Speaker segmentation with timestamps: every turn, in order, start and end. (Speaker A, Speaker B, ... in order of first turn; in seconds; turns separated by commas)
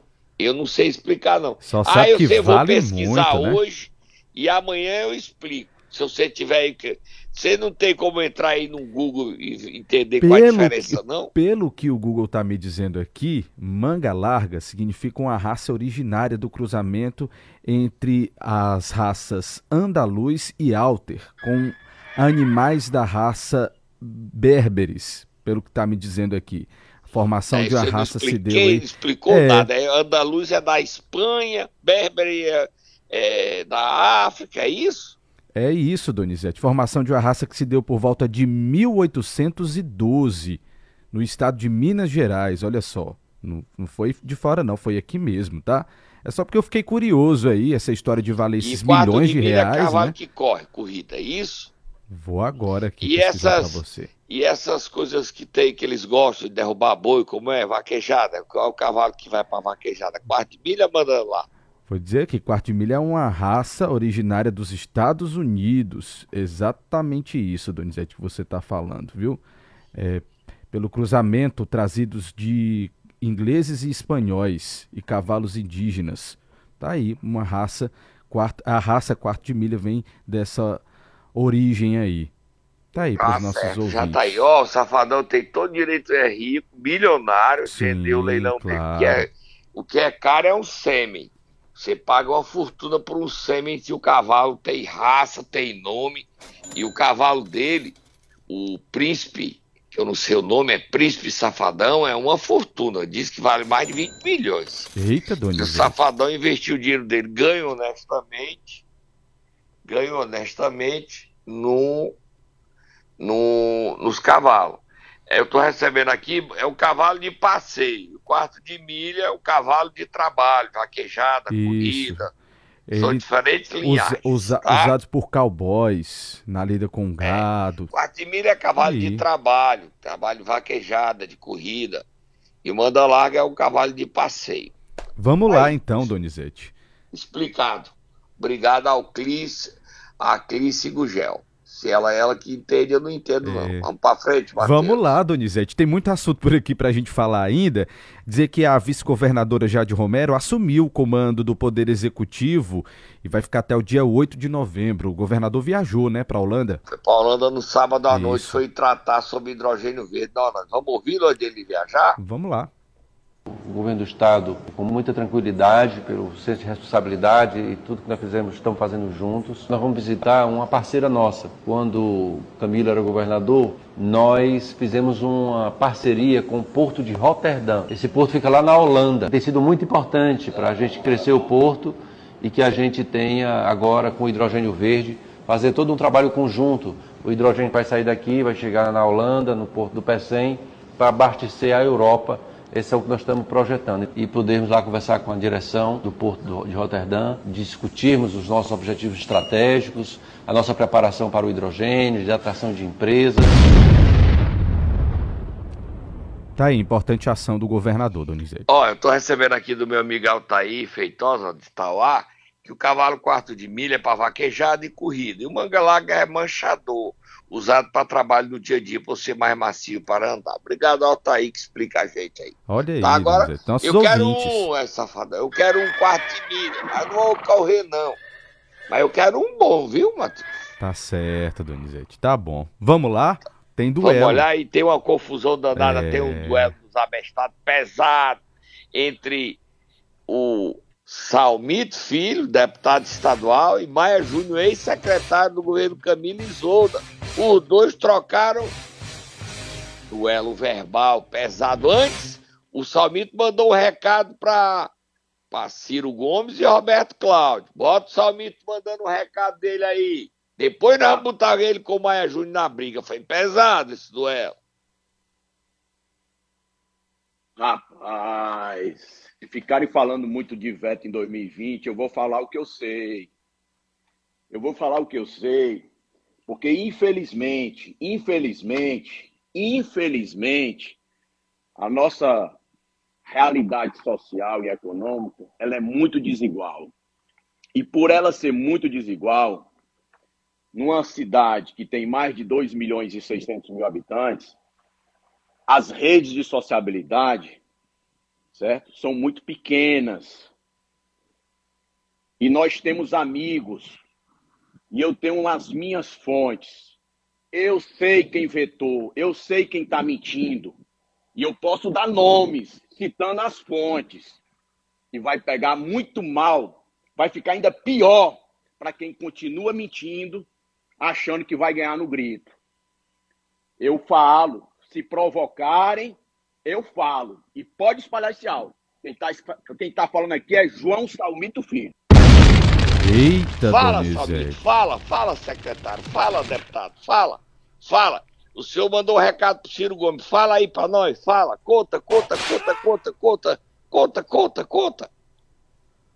Speaker A: 0.4-11.3, Speaker B: 1.6-3.6, Speaker B: 10.2-29.7, Speaker A: 27.5-35.2, Speaker B: 35.5-40.6, Speaker B: 41.1-50.1, Speaker A: 48.6-51.7, Speaker B: 52.1-54.1, Speaker A: 53.0-61.5, Speaker B: 61.9-69.4, Speaker B: 69.9-80.8, Speaker B: 81.3-82.3, Speaker B: 82.9-84.5, Speaker A: 83.2-98.0, Speaker B: 87.6-89.3, Speaker A: 98.5-104.9, Speaker B: 104.9-105.9, Speaker A: 105.5-108.8, Speaker A: 109.8-112.2, Speaker A: 113.2-122.3, Speaker B: 121.5-122.3, Speaker B: 122.9-123.2, Speaker A: 122.9-124.9, Speaker B: 123.8-127.9, Speaker A: 127.2-132.0, Speaker B: 128.8-129.2, Speaker A: 132.6-134.7, Speaker B: 135.2-136.7, Speaker A: 135.5-136.1, Speaker A: 137.1-145.1, Speaker B: 143.4-143.9, Speaker B: 144.6-156.8, Speaker A: 156.9-162.2, Speaker B: 158.1-158.6, Speaker B: 162.2-162.7, Speaker C: 163.5-203.7, Speaker B: 206.6-208.7, Speaker A: 208.7-228.2, Speaker B: 222.7-224.7, Speaker A: 228.9-230.5, Speaker B: 230.8-234.5, Speaker A: 234.0-238.4, Speaker B: 235.7-236.7, Speaker A: 238.9-239.6, Speaker A: 240.3-248.7, Speaker A: 250.1-254.9, Speaker A: 255.5-264.5, Speaker D: 267.6-273.3, Speaker D: 274.5-275.9, Speaker D: 276.5-281.0, Speaker D: 281.8-282.6, Speaker D: 283.2-286.9, Speaker D: 287.7-289.7, Speaker D: 290.7-294.6, Speaker D: 295.7-297.6, Speaker D: 298.5-300.5, Speaker D: 302.4-304.0, Speaker D: 304.9-306.9, Speaker D: 307.5-310.8, Speaker D: 311.3-314.4, Speaker D: 315.1-320.5, Speaker D: 321.0-322.5, Speaker D: 323.8-331.9, Speaker B: 333.0-334.6, Speaker A: 333.6-345.1